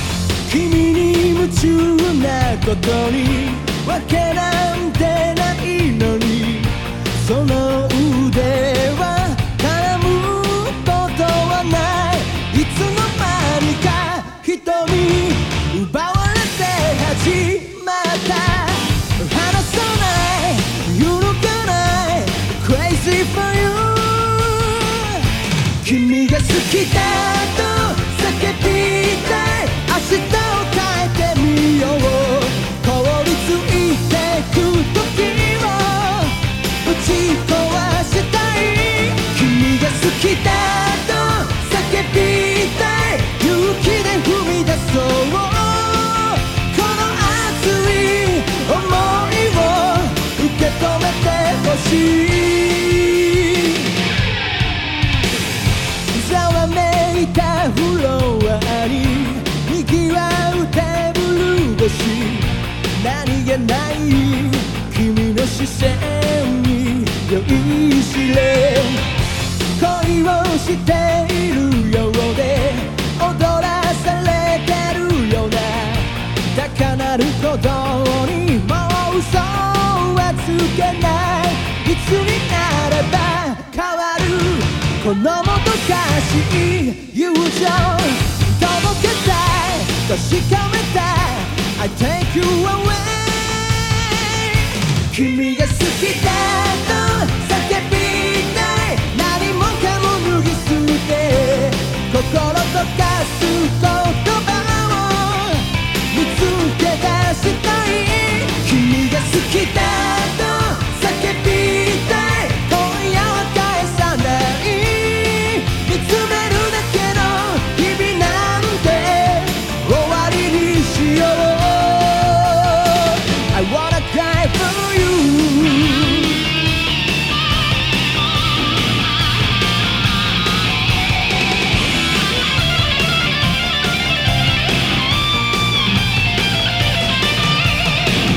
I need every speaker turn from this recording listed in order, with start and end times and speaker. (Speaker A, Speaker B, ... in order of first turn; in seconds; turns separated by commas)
Speaker A: 0.4-54.0, Speaker A: 56.1-69.1, Speaker A: 69.8-126.5